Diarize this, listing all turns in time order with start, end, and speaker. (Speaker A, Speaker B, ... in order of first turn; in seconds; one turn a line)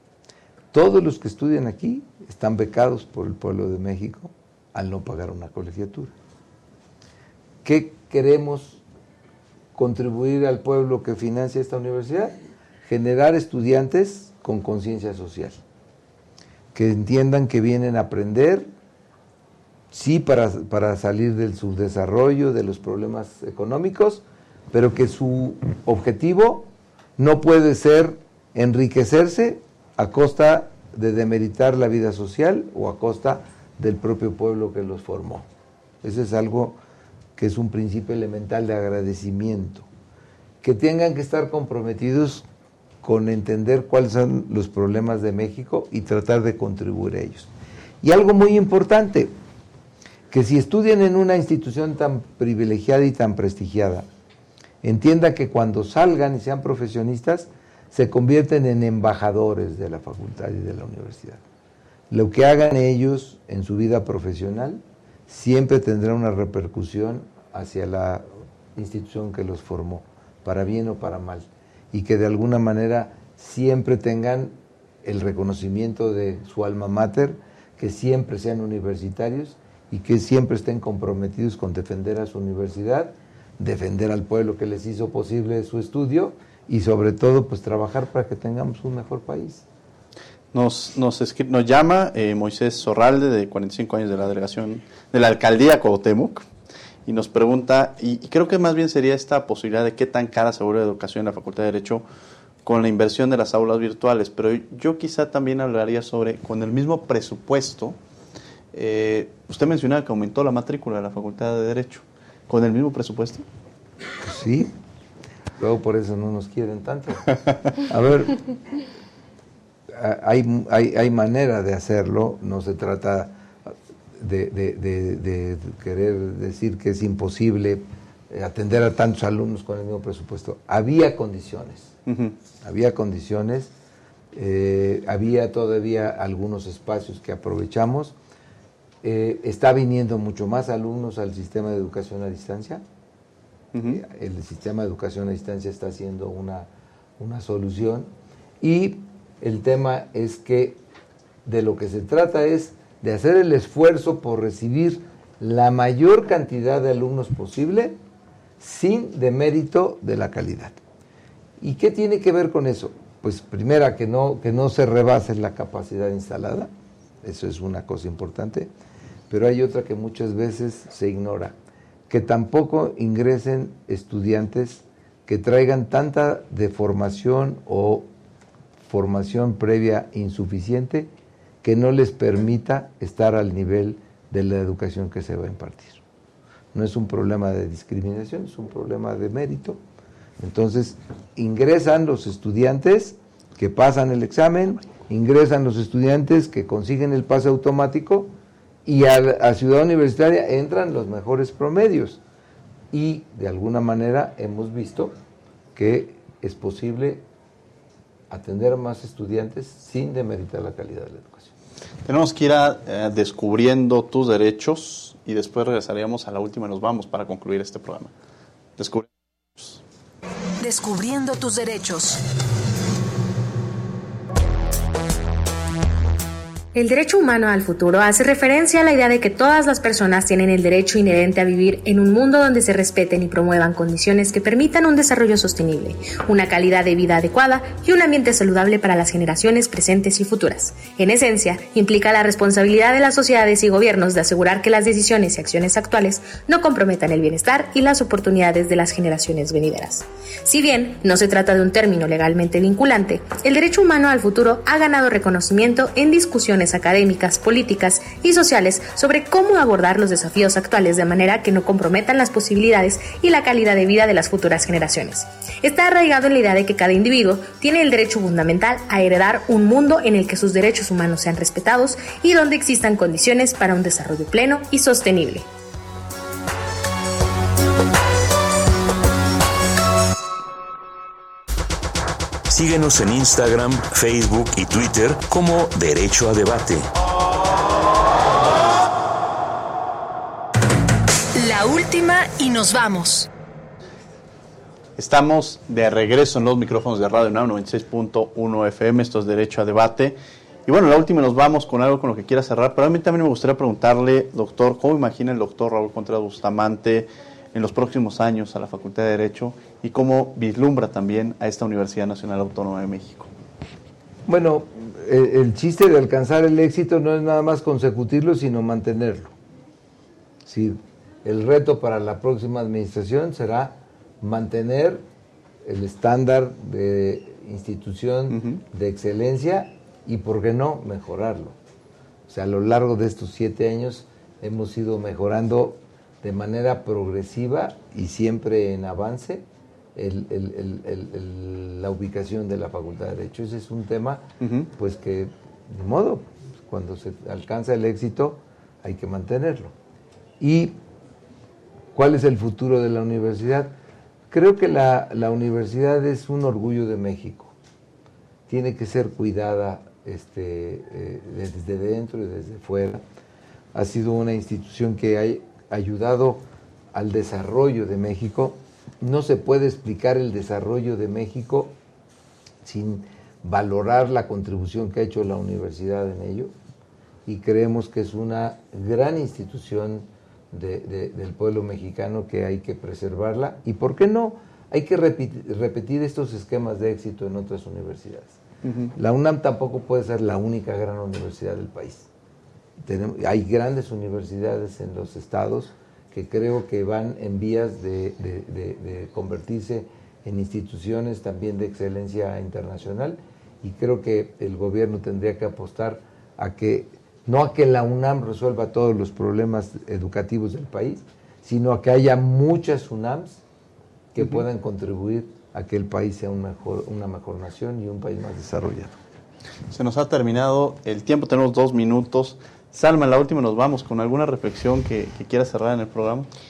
Speaker A: 0.7-6.1
Speaker A: 7.6-8.8
Speaker A: 9.7-15.6
Speaker A: 16.7-18.7
Speaker A: 19.9-35.5
Speaker A: 36.0-36.8
Speaker A: 37.4-39.9
Speaker A: 40.6-42.4
Speaker A: 43.0-47.5
Speaker A: 48.0-49.3
Speaker A: 50.3-54.1
Speaker A: 54.8-61.4
Speaker A: 62.1-68.2
Speaker A: 68.8-89.6
Speaker B: 90.5-96.5
Speaker B: 97.0-102.0
Speaker B: 102.6-108.0
Speaker B: 108.7-113.4
Speaker A: 114.2-114.7
Speaker A: 115.6-118.5
Speaker A: 119.9-131.9
Speaker B: 132.1-132.3
Speaker A: 132.6-133.7
Speaker A: 134.3-138.1
Speaker A: 139.0-142.8
Speaker B: 143.7-144.0
Speaker A: 143.8-146.7
Speaker A: 147.2-148.1
Speaker A: 148.6-150.8
Speaker A: 151.4-158.0
Speaker A: 158.6-160.8
Speaker A: 161.6-166.7
Speaker A: 167.2-168.7
Speaker A: 169.3-171.6
Speaker A: 172.1-178.1
Speaker A: 178.9-181.1
Speaker A: 181.6-186.0
Speaker A: 186.7-189.8
Speaker A: 190.4-198.3
Speaker A: 198.8-202.2
Speaker A: 202.9-205.2
Speaker A: 205.7-207.2
Speaker A: 208.3-211.5
Speaker B: 212.1-218.1
Speaker B: 218.8-219.8
Speaker C: 220.6-222.2
Speaker D: 226.7-275.5
Speaker E: 282.5-286.9
Speaker C: 291.3-293.3
Speaker B: 295.0-300.1
Speaker B: 300.7-313.3
Speaker A: 314.2-319.3
Speaker A: 320.4-325.0
Speaker A: 325.6-331.6
Speaker A: 332.3-349.7
Speaker B: 344.4-344.7
Speaker A: 350.4-350.8
Speaker A: 351.9-353.7
Speaker A: 354.3-357.5
Speaker A: 358.5-363.0
Speaker A: 363.7-371.8
Speaker A: 372.6-376.5
Speaker A: 377.2-388.4
Speaker B: 388.6-388.9
Speaker A: 388.9-392.1
Speaker A: 392.8-413.4
Speaker A: 414.1-419.0
Speaker B: 419.7-426.3